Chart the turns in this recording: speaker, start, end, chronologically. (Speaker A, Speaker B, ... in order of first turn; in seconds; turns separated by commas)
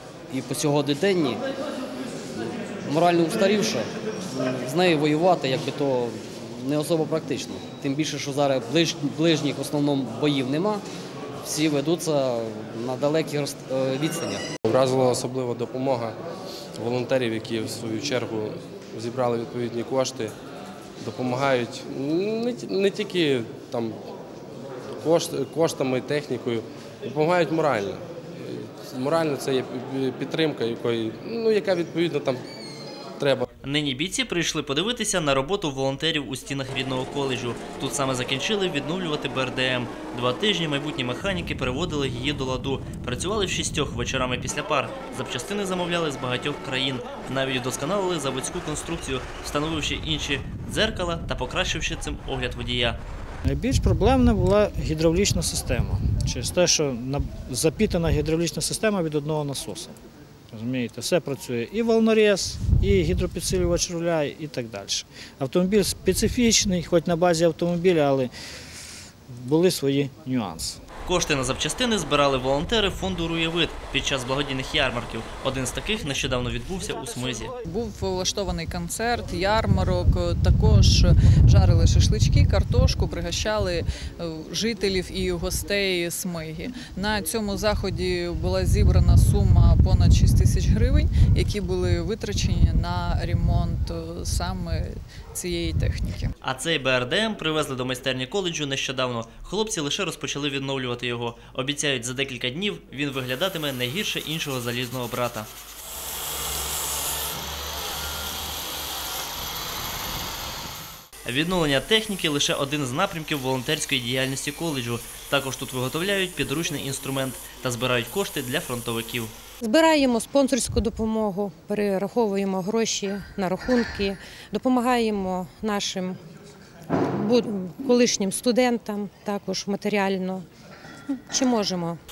Speaker A: 0.3-1.4, Speaker A: 2.4-10.8, Speaker A: 11.4-14.4, Speaker B: 14.7-16.1, Speaker B: 16.8-20.3, Speaker B: 21.0-24.0, Speaker B: 25.0-32.4, Speaker B: 33.2-33.5, Speaker C: 33.6-53.0, Speaker D: 53.4-60.0, Speaker D: 60.5-68.3, Speaker D: 69.3-70.8, Speaker C: 71.0-77.5, Speaker E: 77.6-96.3, Speaker C: 96.4-105.5, Speaker C: 111.2-119.3, Speaker F: 119.6-126.2, Speaker F: 127.1-130.4, Speaker F: 131.3-132.0